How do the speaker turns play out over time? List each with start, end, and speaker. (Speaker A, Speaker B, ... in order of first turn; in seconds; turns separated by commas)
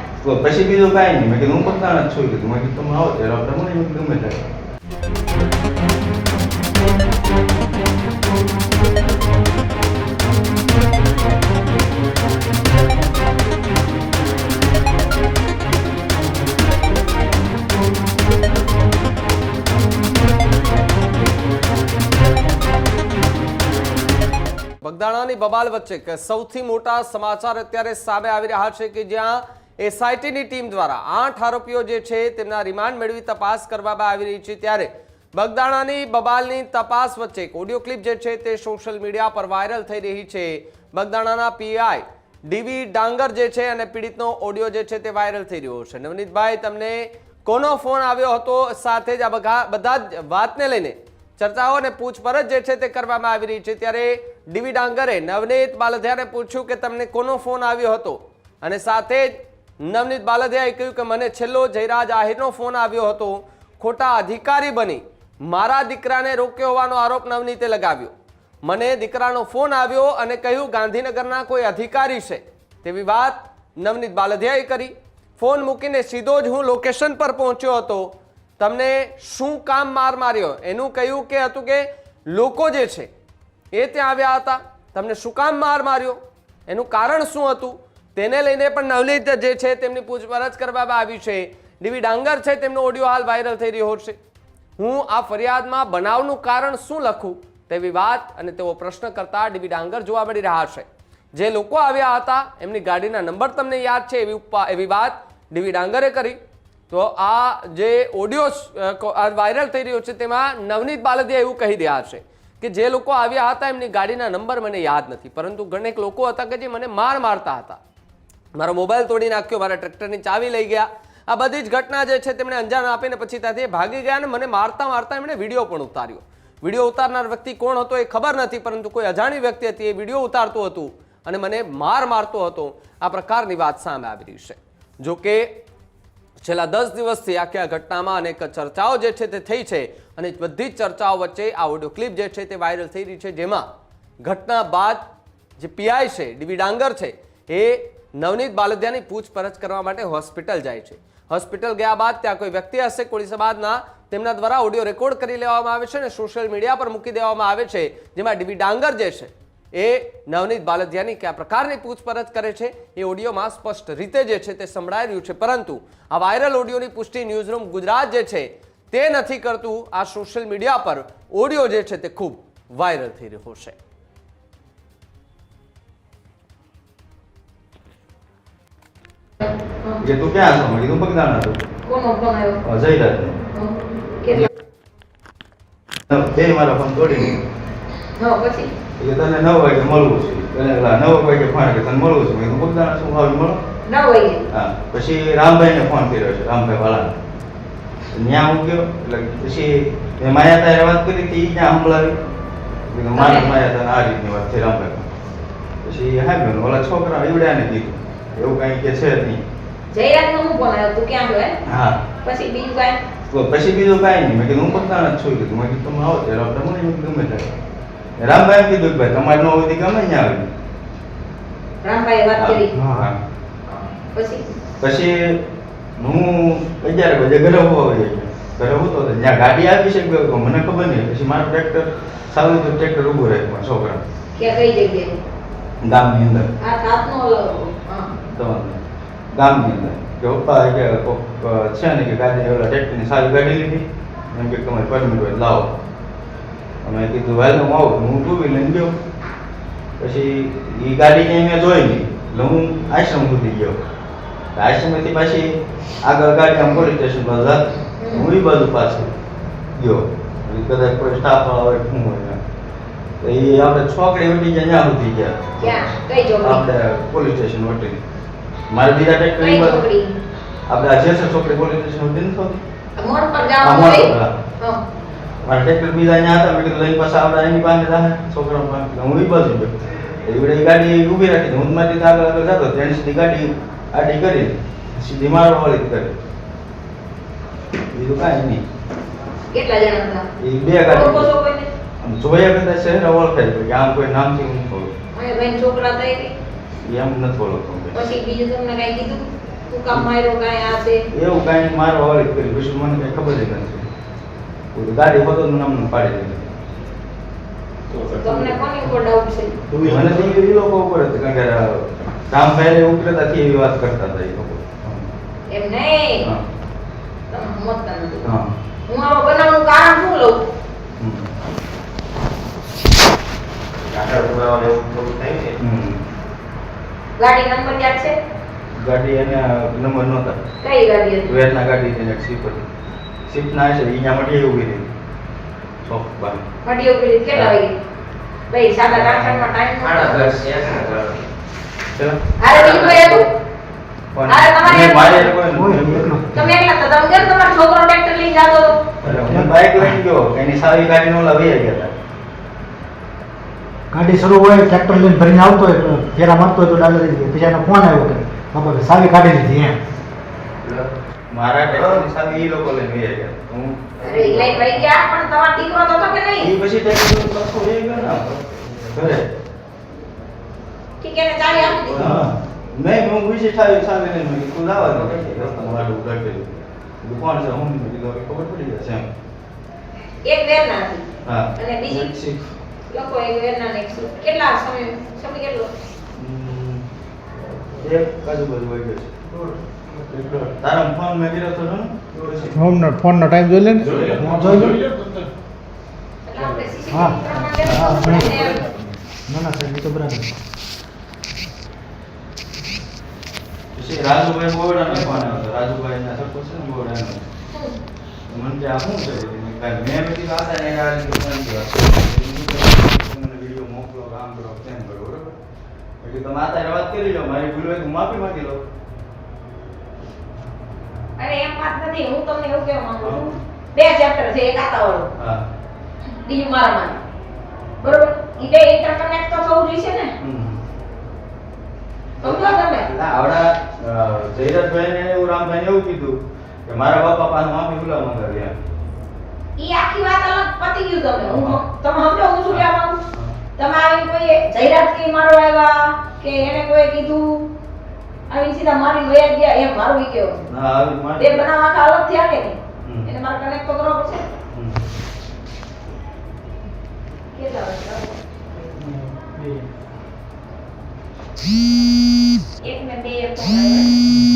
Speaker A: 0.2-4.4, Speaker B: 24.8-68.1, Speaker B: 68.6-83.1, Speaker B: 83.7-94.2, Speaker B: 94.8-117.8, Speaker B: 118.6-135.6, Speaker B: 136.4-143.7, Speaker B: 144.2-145.1, Speaker B: 145.6-173.8, Speaker C: 179.4-180.0, Speaker A: 180.0-181.6, Speaker C: 181.9-182.6, Speaker A: 182.6-183.4, Speaker C: 183.5-184.5, Speaker A: 186.1-187.4, Speaker C: 188.2-188.7, Speaker A: 189.0-193.6, Speaker C: 193.9-194.4, Speaker A: 194.5-197.1, Speaker A: 198.1-202.2, Speaker A: 202.9-205.1, Speaker C: 203.1-203.5, Speaker A: 205.8-209.4, Speaker C: 209.9-211.5, Speaker A: 211.7-212.0, Speaker C: 212.2-213.0, Speaker A: 213.3-217.5, Speaker A: 218.2-220.5, Speaker C: 221.8-222.8, Speaker A: 222.3-223.2, Speaker D: 222.7-223.1, Speaker C: 223.7-224.4, Speaker A: 224.8-225.4, Speaker A: 226.0-234.0, Speaker C: 234.3-235.2, Speaker A: 235.8-236.5, Speaker C: 236.6-238.1, Speaker A: 238.3-238.8, Speaker A: 239.3-245.7, Speaker A: 246.8-248.9, Speaker A: 250.0-253.8, Speaker A: 254.5-259.1, Speaker C: 258.0-258.3, Speaker A: 259.7-262.4, Speaker A: 263.2-268.0, Speaker C: 265.6-266.6, Speaker A: 268.7-269.8, Speaker C: 269.4-270.1, Speaker A: 270.7-272.6, Speaker C: 273.0-274.8, Speaker A: 273.6-274.3, Speaker A: 275.4-286.1, Speaker A: 287.9-288.6, Speaker C: 289.5-290.2, Speaker A: 290.4-291.3, Speaker C: 290.9-291.7, Speaker A: 292.0-294.9, Speaker C: 295.1-296.3, Speaker A: 296.8-298.0, Speaker C: 297.9-301.0, Speaker A: 301.1-303.8, Speaker A: 304.7-306.4, Speaker C: 308.1-309.5, Speaker A: 309.8-315.1, Speaker C: 315.5-316.3, Speaker C: 317.3-318.3, Speaker C: 318.9-320.4, Speaker A: 321.0-321.3, Speaker E: 323.8-325.6, Speaker A: 325.6-326.0, Speaker C: 327.2-328.1, Speaker A: 328.8-330.4, Speaker C: 330.6-331.3, Speaker A: 331.2-332.6, Speaker A: 333.3-334.9, Speaker A: 335.8-336.4, Speaker C: 336.6-337.8, Speaker C: 338.5-340.4, Speaker A: 338.9-339.5, Speaker E: 339.8-341.2, Speaker C: 342.4-343.3, Speaker E: 342.5-343.3, Speaker A: 344.1-346.2, Speaker C: 344.3-345.3, Speaker D: 345.5-346.6, Speaker C: 346.3-348.8, Speaker A: 349.0-351.9, Speaker D: 349.0-350.0, Speaker D: 353.9-359.8, Speaker A: 361.3-364.8, Speaker C: 364.0-366.5, Speaker A: 366.4-368.3, Speaker E: 368.5-368.8, Speaker A: 368.9-369.2, Speaker C: 371.0-372.1, Speaker A: 371.9-379.1, Speaker D: 372.0-372.3, Speaker E: 375.0-375.4, Speaker C: 380.2-381.0, Speaker A: 381.2-382.5, Speaker C: 381.6-382.1, Speaker C: 382.9-385.7, Speaker A: 386.1-386.8, Speaker A: 387.8-389.1, Speaker A: 389.9-392.8, Speaker A: 393.8-394.3, Speaker E: 393.8-395.2, Speaker D: 394.1-394.8, Speaker C: 396.2-398.6, Speaker D: 396.9-398.4, Speaker A: 397.7-398.0, Speaker E: 398.1-398.7, Speaker D: 399.3-400.3, Speaker A: 403.7-407.2, Speaker A: 408.3-415.3, Speaker A: 416.0-418.6, Speaker C: 421.2-425.1, Speaker A: 423.0-423.4, Speaker A: 425.2-425.4, Speaker C: 426.1-427.0, Speaker C: 427.8-430.1, Speaker A: 430.2-430.6, Speaker C: 432.2-432.9, Speaker A: 432.2-438.5, Speaker C: 439.6-443.0, Speaker A: 441.2-441.6, Speaker A: 442.5-443.3, Speaker C: 443.6-447.4, Speaker C: 448.3-450.4, Speaker A: 450.5-451.5, Speaker C: 451.2-454.2, Speaker A: 452.8-453.1, Speaker A: 454.5-454.8, Speaker C: 457.3-458.1, Speaker D: 458.6-459.6, Speaker C: 462.6-463.9